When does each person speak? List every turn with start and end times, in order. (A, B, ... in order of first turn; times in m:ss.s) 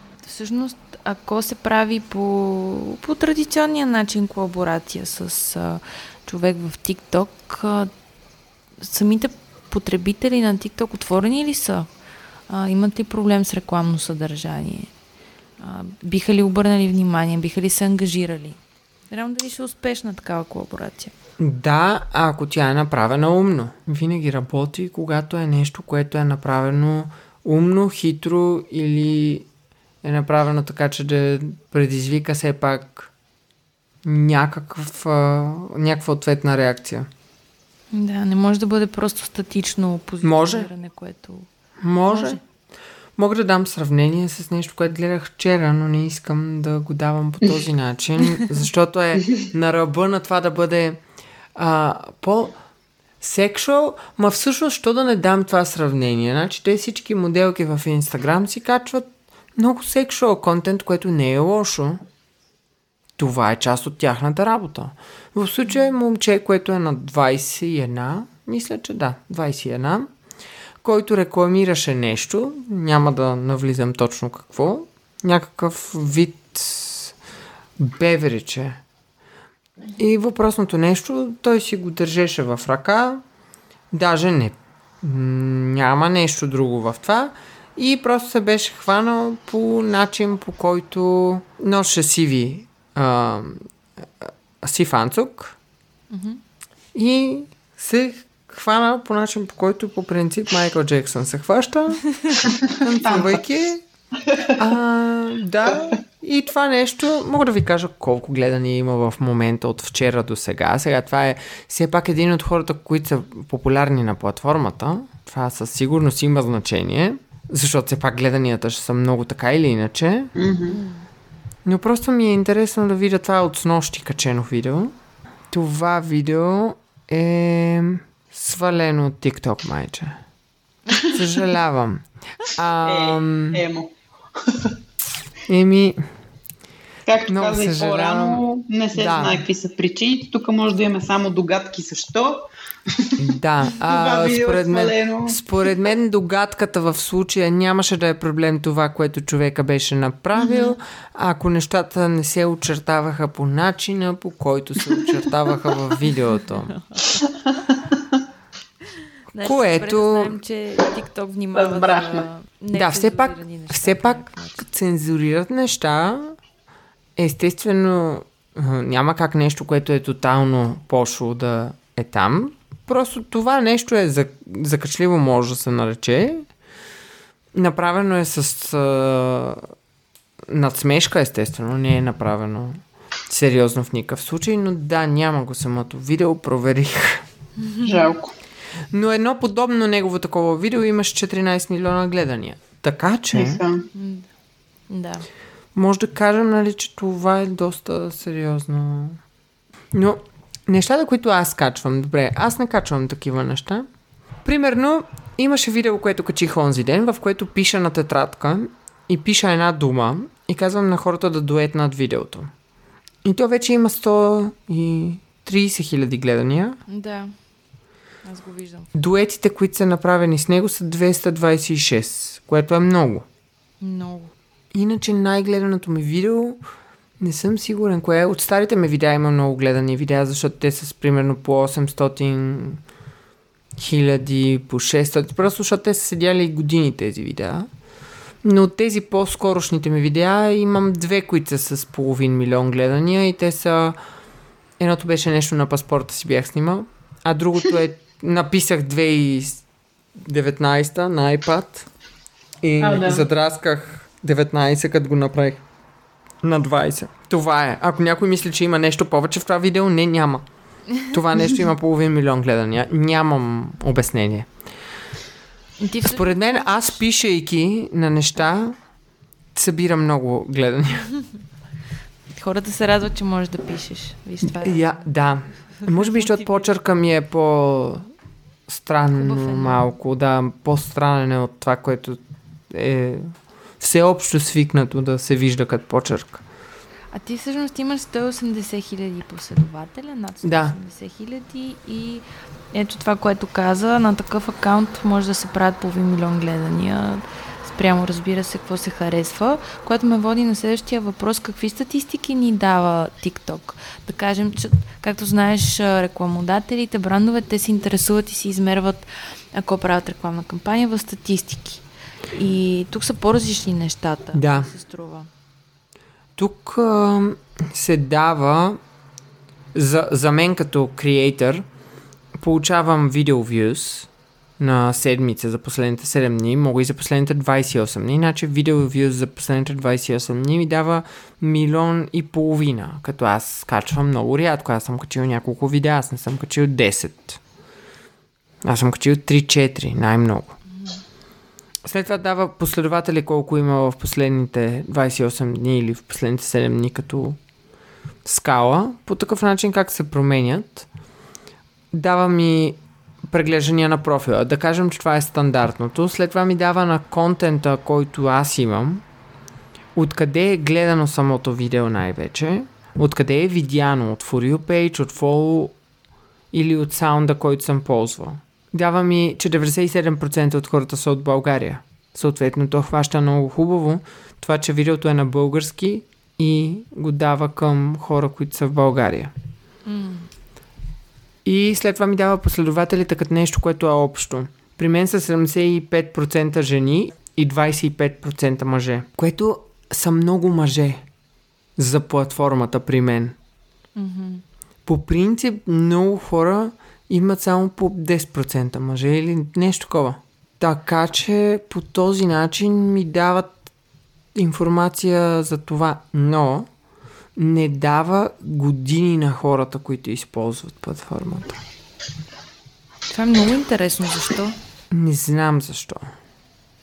0:00.2-0:07.9 A
0:08.8-0:11.9 A
0:12.5-0:14.9 A
0:15.6-0:21.1 A
0:21.4-0:29.5 B
0:30.0-0:33.1 B
0:34.0-0:37.1 B
0:37.9-0:41.5 A
0:40.2-0:40.7 B
0:41.8-0:42.4 B
0:42.1-0:42.4 A
0:43.2-0:51.0 B
0:51.6-0:52.6 B
0:53.2-1:02.0 B
1:03.2-1:10.1 B
1:10.8-1:17.2 B
1:17.8-1:18.8 B
1:20.0-1:23.2 B
1:23.9-1:33.7 B
1:34.2-1:35.6 B
1:36.1-1:36.4 A
1:36.9-1:42.0 B
1:42.4-1:43.4 C
1:42.7-1:43.8 B
1:44.3-1:44.5 C
1:44.6-2:00.3 B
2:00.4-2:00.8 C
2:00.7-2:01.1 A
2:01.6-2:05.0 B
2:05.5-2:10.2 B
2:11.1-2:13.6 B
2:12.8-2:14.7 C
2:15.5-2:16.0 B
2:17.1-2:23.2 C
2:17.3-2:18.4 B
2:19.0-2:19.4 B
2:23.2-2:36.8 B
2:23.8-2:25.7 C
2:36.8-2:37.2 A
2:37.2-2:38.1 C
2:39.3-2:44.6 A
2:39.4-2:40.4 B
2:41.5-2:42.3 C
2:42.7-2:46.4 B
2:47.2-2:56.5 B
2:57.5-2:59.6 B
3:00.5-3:07.2 B
3:07.6-3:08.0 A
3:07.8-3:08.4 C
3:08.9-3:13.6 B
3:13.3-3:13.9 C
3:13.9-3:14.3 A
3:14.9-3:15.3 A
3:15.8-3:19.2 B
3:19.9-3:23.9 B
3:24.4-3:32.5 B
3:33.2-3:36.8 B
3:36.9-3:37.3 A
3:38.2-3:38.9 A
3:38.9-3:43.3 B
3:43.8-3:44.3 A
3:44.7-3:46.6 B
3:47.2-3:52.8 B
3:53.8-3:57.7 B
3:58.4-4:04.0 B
4:04.8-4:09.6 B
4:10.2-4:11.9 B
4:12.6-4:15.6 B
4:12.8-4:13.3 C
4:16.4-4:20.5 B
4:21.0-4:24.5 B
4:25.8-4:27.0 A
4:26.1-4:28.8 B
4:29.6-4:31.1 B
4:32.3-4:34.9 A
4:34.4-4:38.0 B
4:35.8-4:36.5 A
4:38.7-4:42.2 B
4:39.1-4:39.8 A
4:42.7-4:46.4 B
4:47.1-5:15.3 A
4:50.4-4:50.8 B
5:14.3-5:14.7 B
5:16.4-5:18.8 B
5:19.7-5:21.6 B
5:22.4-5:37.4 B
5:38.6-5:40.6 B
5:41.8-5:47.4 B
5:48.2-5:50.9 B
5:51.9-5:59.0 B
6:00.0-6:05.8 B
6:06.5-6:19.3 B
6:19.9-6:20.3 A
6:21.4-6:31.0 B
6:31.8-6:33.4 B
6:34.0-6:34.4 A
6:34.9-6:43.6 B
6:44.4-6:46.7 B
6:47.4-6:51.6 B
6:53.1-6:54.6 A
6:54.9-6:56.0 B